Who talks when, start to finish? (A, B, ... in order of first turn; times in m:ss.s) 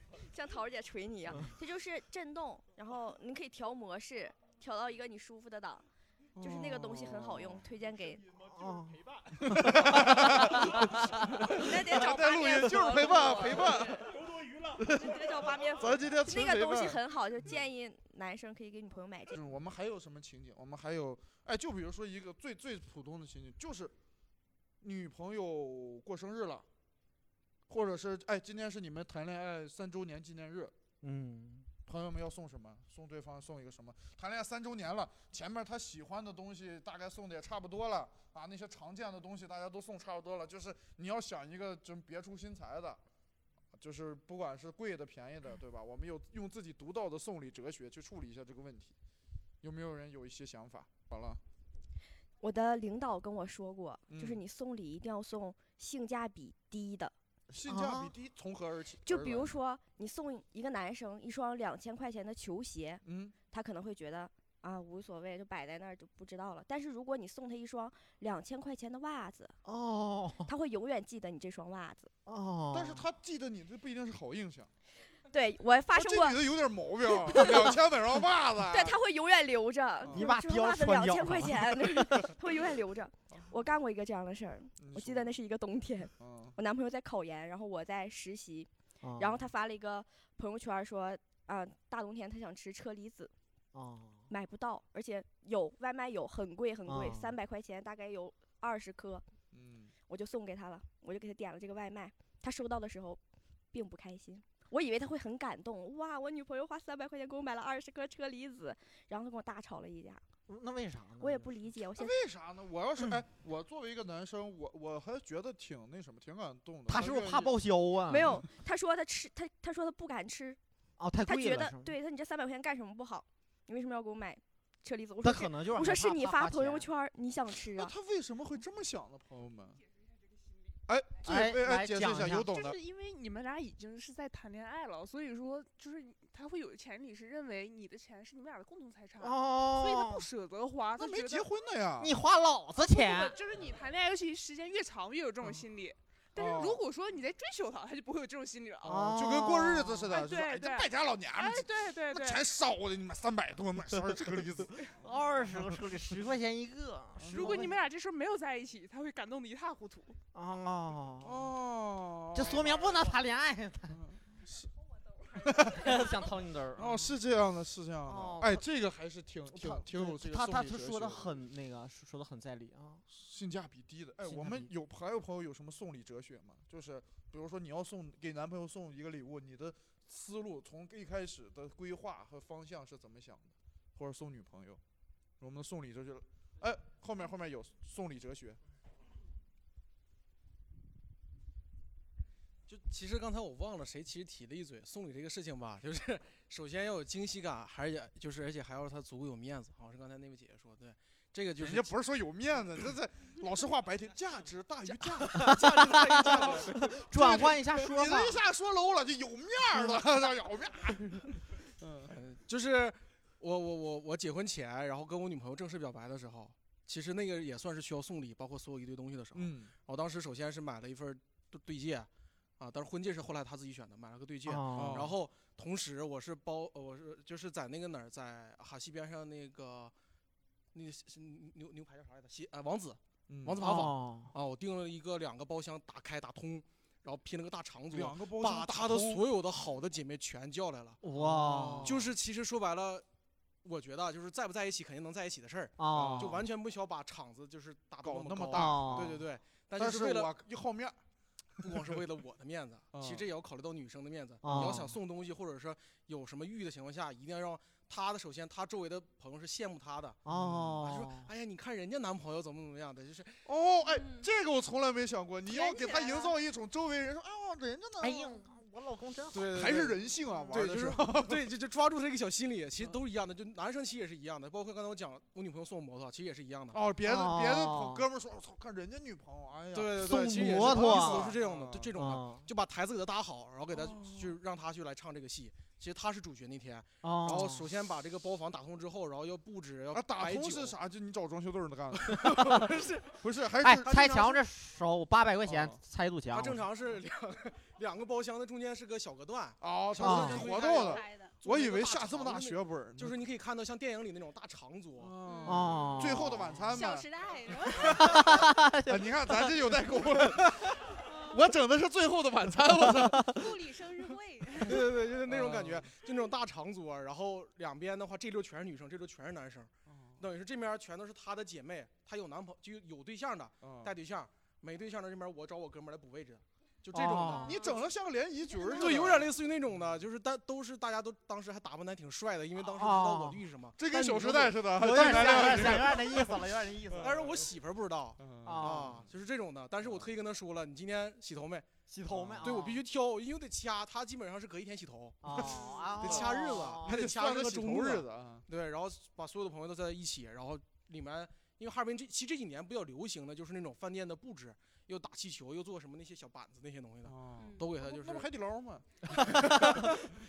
0:00.2-0:05.9 A
0:06.4-0:07.6 B
0:06.4-0:08.3 A
0:08.4-0:10.9 C
0:09.4-0:17.0 B
0:11.5-0:14.0 A
0:14.9-0:19.4 A
0:19.3-0:23.9 B
0:24.8-0:26.7 B
0:27.7-0:30.7 B
0:31.0-0:31.7 C
0:31.9-0:43.0 B
0:43.8-0:49.0 B
0:49.6-0:51.4 B
0:52.4-0:57.1 A
0:54.1-0:54.4 B
0:57.5-0:59.6 B
0:59.0-1:09.6 A
1:03.0-1:03.3 B
1:09.6-1:10.5 C
1:10.4-1:12.1 A
1:12.3-1:13.0 C
1:12.7-1:14.7 B
1:15.3-1:16.4 A
1:15.9-1:19.0 B
1:17.1-1:17.8 A
1:18.7-1:33.3 A
1:20.0-1:20.3 B
1:20.1-1:22.3 C
1:24.8-1:25.3 B
1:26.2-1:26.6 B
1:29.0-1:29.5 C
1:33.7-1:34.3 C
1:34.3-1:39.2 A
1:36.9-1:37.3 C
1:39.5-1:39.9 B
1:40.1-1:43.2 A
1:43.7-1:50.2 A
1:50.5-1:51.5 C
1:51.2-1:52.2 A
1:52.0-1:57.6 B
1:56.9-1:58.4 C
1:58.1-2:00.6 A
2:01.0-2:01.9 C
2:01.2-2:07.9 A
2:05.2-2:06.9 C
2:07.7-2:09.8 B
2:10.9-2:12.8 B
2:11.2-2:12.5 C
2:12.5-2:21.5 D
2:19.2-2:20.2 C
2:21.0-2:22.1 B
2:22.0-2:23.4 C
2:22.8-2:29.0 D
2:26.4-2:26.8 B
2:28.8-2:30.2 C
2:28.8-2:34.9 B
2:30.1-2:32.4 D
2:35.0-2:37.8 C
2:35.4-2:35.8 B
2:37.2-2:37.6 B
2:37.3-2:40.2 D
2:40.3-2:41.5 C
2:41.2-2:43.1 B
2:42.3-2:44.0 C
2:43.9-2:44.7 B
2:45.4-2:46.2 B
2:45.6-2:47.2 C
2:46.7-2:51.4 B
2:48.0-2:48.6 C
2:49.5-2:53.0 C
2:53.1-3:04.8 B
2:54.2-2:54.7 C
3:05.4-3:08.6 B
3:12.7-3:21.9 E
3:21.6-3:32.1 B
3:24.9-3:26.9 E
3:25.3-3:28.4 C
3:32.1-3:49.9 E
3:39.4-3:39.7 B
3:44.4-3:45.1 C
3:44.7-3:45.1 B
3:50.7-4:03.0 E
3:53.3-3:53.6 B
3:53.6-3:54.3 C
3:57.9-3:59.2 B
4:01.0-4:02.1 C
4:01.3-4:01.9 B
4:03.6-4:10.3 E
4:05.8-4:06.4 C
4:05.9-4:06.4 B
4:08.0-4:09.2 B
4:08.5-4:09.2 C
4:09.8-4:11.0 B
4:11.6-4:12.0 B
4:11.6-4:20.2 E
4:12.9-4:13.2 B
4:14.4-4:15.0 C
4:14.5-4:14.8 B
4:20.2-4:21.3 C
4:20.3-4:20.8 B
4:20.8-4:23.4 E
4:23.4-4:28.4 B
4:23.9-4:24.3 F
4:25.5-4:26.3 F
4:28.0-4:29.9 C
4:29.3-4:30.0 E
4:29.4-4:31.4 B
4:30.5-4:36.8 E
4:36.7-4:41.9 B
4:37.0-4:38.0 C
4:39.7-4:50.7 E
4:40.0-4:41.4 C
4:42.0-4:42.4 C
4:43.7-4:44.4 B
4:47.0-4:47.7 C
4:49.9-4:54.1 B
4:52.0-4:53.1 E
4:53.6-4:56.6 C
4:53.9-4:54.4 E
4:55.5-4:55.8 B
4:56.3-5:05.9 E
4:59.6-5:03.2 B
5:00.0-5:00.4 C
5:00.5-5:01.4 F
5:05.0-5:07.1 B
5:05.3-5:05.5 F
5:05.4-5:06.8 C
5:06.7-5:08.3 F
5:07.7-5:13.5 B
5:07.8-5:09.5 C
5:11.0-5:11.4 F
5:12.9-5:13.3 C
5:13.3-5:14.8 F
5:14.6-5:27.6 E
5:15.3-5:15.9 B
5:19.9-5:20.2 B
5:23.6-5:23.9 B
5:26.9-5:27.5 C
5:27.3-5:29.3 B
5:28.6-5:35.9 E
5:32.7-5:33.4 C
5:33.8-5:37.4 B
5:34.6-5:37.2 C
5:37.0-5:41.8 E
5:38.2-5:39.0 B
5:38.4-5:39.0 C
5:41.9-5:42.8 C
5:42.1-5:42.7 B
5:42.4-5:58.3 E
5:45.2-5:47.0 C
5:45.4-5:48.4 B
5:57.0-5:59.9 B
5:57.4-5:57.7 F
5:59.3-5:59.7 C